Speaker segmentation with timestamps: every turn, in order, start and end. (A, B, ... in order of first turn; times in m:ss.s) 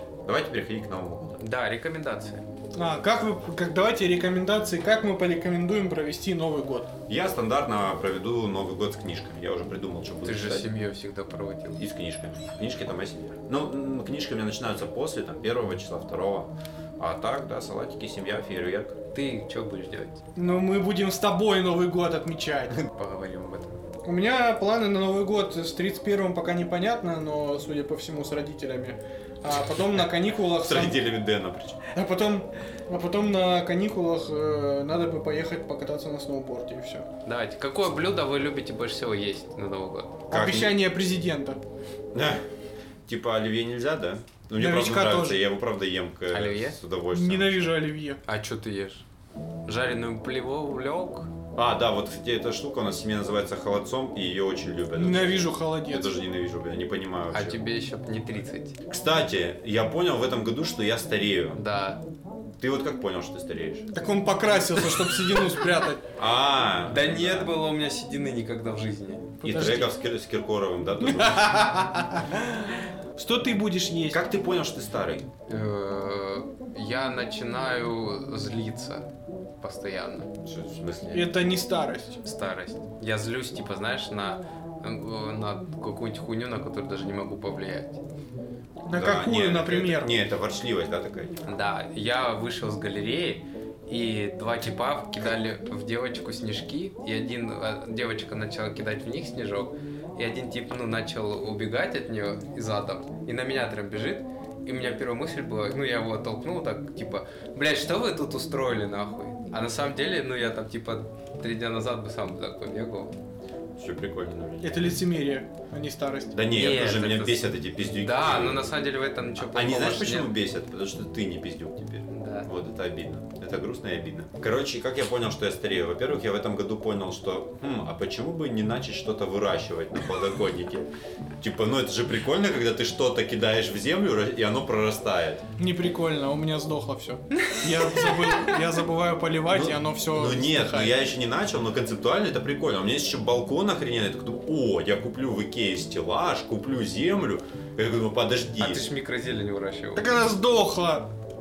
0:00.3-0:01.4 A
0:01.4-0:02.4 B
0:02.8-0:06.9 C
0:07.1-0:10.7 A
0:10.2-0:11.8 B
0:11.8-0:19.0 A
0:19.1-0:20.2 B
0:20.4-0:22.8 C
0:22.9-0:23.8 B
0:24.0-0:31.0 C
0:30.3-0:31.8 A
0:31.9-0:37.1 C
0:37.2-0:40.2 B
0:40.3-0:41.6 C
0:40.3-0:40.8 A
0:42.1-0:42.5 A
0:43.1-0:47.8 A
0:44.6-0:45.4 C
0:46.3-0:46.8 B
0:47.1-0:48.2 C
0:48.2-0:49.0 B
0:49.7-0:51.3 B
0:51.6-0:57.6 A
0:54.9-0:56.1 C
0:57.3-0:58.8 B
0:58.9-1:01.6 A
1:01.6-1:02.0 B
1:02.6-1:03.9 A
1:03.9-1:06.0 C
1:06.2-1:07.5 A
1:06.9-1:09.7 B
1:09.4-1:11.6 A
1:09.5-1:09.9 C
1:11.0-1:14.2 C
1:14.1-1:15.3 A
1:15.5-1:19.1 B
1:19.6-1:20.3 B
1:20.4-1:21.3 A
1:21.1-1:22.2 C
1:22.2-1:28.0 B
1:28.9-1:30.1 C
1:28.9-1:31.4 A
1:31.5-1:53.1 B
1:53.8-1:54.8 A
1:54.6-1:56.4 C
1:56.3-1:58.7 A
1:56.5-2:00.3 B
1:59.4-2:10.9 A
2:02.1-2:02.5 B
2:11.4-2:15.4 A
2:15.6-2:21.0 C
2:17.5-2:18.4 B
2:19.5-2:28.9 A
2:28.6-2:30.1 B
2:30.0-2:31.1 C